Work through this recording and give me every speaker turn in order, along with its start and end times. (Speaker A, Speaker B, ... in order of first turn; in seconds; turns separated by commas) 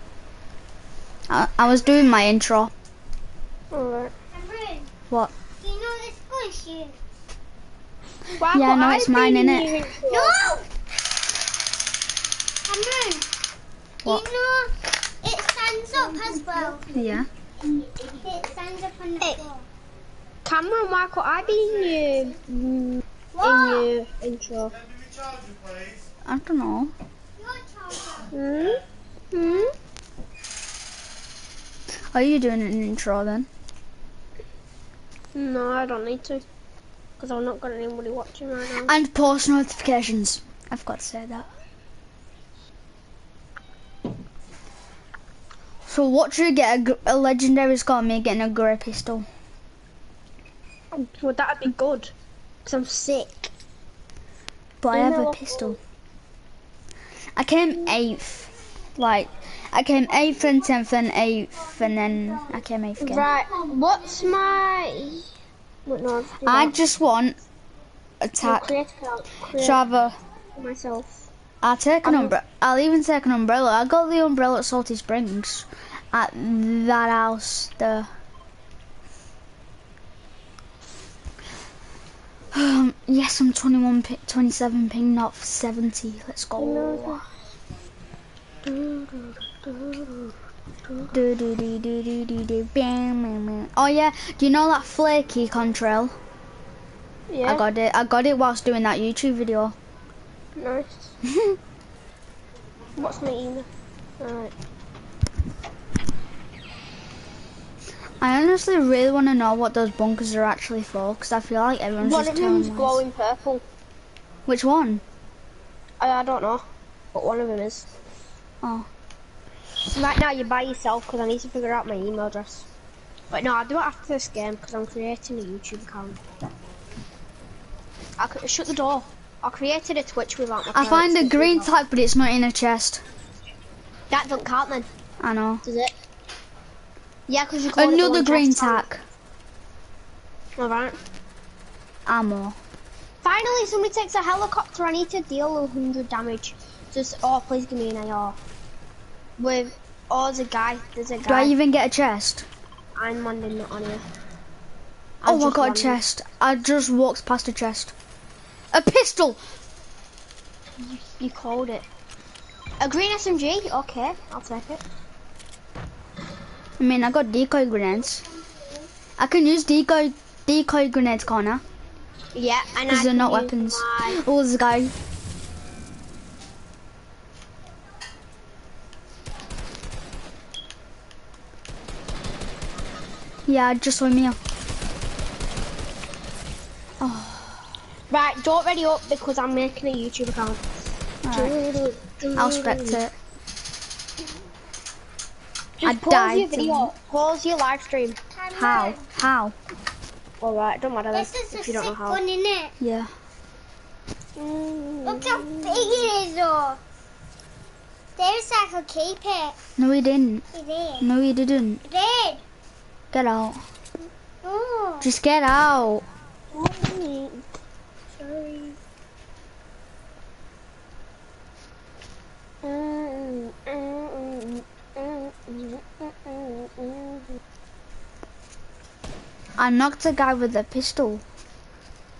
Speaker A: 1.3-2.7, Speaker B: 3.7-4.1, Speaker C: 4.3-4.9, Speaker C: 5.6-7.0, Speaker B: 8.4-10.4, Speaker A: 8.5-9.7, Speaker C: 10.1-10.7, Speaker C: 12.7-13.3, Speaker C: 14.0-16.8, Speaker B: 15.9-17.2, Speaker A: 16.9-17.3, Speaker C: 18.1-19.7, Speaker B: 20.4-24.8, Speaker C: 23.3-23.9, Speaker A: 26.2-26.9, Speaker C: 27.4-28.3, Speaker B: 28.3-29.7, Speaker C: 29.4-29.7, Speaker A: 32.1-33.5, Speaker B: 35.3-36.4, Speaker B: 37.2-38.9, Speaker A: 38.8-41.5, Speaker A: 45.9-49.3, Speaker B: 50.9-52.1, Speaker B: 52.6-53.5, Speaker A: 54.8-55.8, Speaker B: 54.9-55.8, Speaker A: 57.4-63.3, Speaker B: 63.0-65.3, Speaker B: 65.8-66.8, Speaker A: 66.4-67.3, Speaker A: 68.2-68.7, Speaker B: 68.4-69.8, Speaker A: 69.5-70.2, Speaker B: 70.5-71.3, Speaker A: 71.6-78.1, Speaker B: 72.0-72.3, Speaker A: 82.5-87.2, Speaker B: 86.6-87.3, Speaker B: 88.6-90.4, Speaker A: 91.1-96.1, Speaker B: 97.3-97.7, Speaker A: 97.4-99.7, Speaker B: 100.5-101.1, Speaker B: 103.0-103.7, Speaker B: 104.2-104.5, Speaker A: 108.2-113.0, Speaker B: 112.0-113.6, Speaker A: 114.5-115.0, Speaker B: 116.0-117.9, Speaker A: 118.6-118.9, Speaker B: 119.9-122.7, Speaker B: 123.3-126.2, Speaker B: 128.2-131.7, Speaker A: 130.7-133.0, Speaker B: 134.1-134.9, Speaker A: 135.2-135.6, Speaker B: 135.6-135.9, Speaker B: 137.3-138.9, Speaker A: 137.7-139.0, Speaker B: 140.6-141.0, Speaker A: 142.1-142.6, Speaker B: 143.2-148.4, Speaker B: 149.4-151.5, Speaker A: 151.2-152.5, Speaker B: 152.9-154.0, Speaker B: 155.2-156.0, Speaker A: 155.2-157.9, Speaker A: 158.7-159.4, Speaker B: 160.8-161.8, Speaker B: 162.8-164.8, Speaker A: 166.8-168.2, Speaker A: 169.2-171.6, Speaker B: 172.3-174.2, Speaker A: 172.9-174.9, Speaker A: 183.5-184.4, Speaker A: 187.0-187.6, Speaker B: 188.1-190.7, Speaker A: 191.2-191.6, Speaker B: 191.3-193.0, Speaker A: 192.3-193.1, Speaker B: 195.8-198.2, Speaker A: 195.8-196.9, Speaker C: 198.3-199.0, Speaker A: 198.5-199.6, Speaker B: 200.4-202.2, Speaker C: 201.1-202.7, Speaker A: 202.8-203.1, Speaker B: 204.3-206.1, Speaker C: 205.1-206.8, Speaker C: 208.2-209.6, Speaker A: 209.8-210.4, Speaker C: 210.5-211.1, Speaker A: 211.0-211.8, Speaker C: 211.8-212.4, Speaker A: 213.1-213.6, Speaker C: 214.4-215.1, Speaker A: 215.0-216.0, Speaker B: 216.5-217.4, Speaker B: 218.1-218.8, Speaker B: 222.6-227.4, Speaker A: 229.6-231.2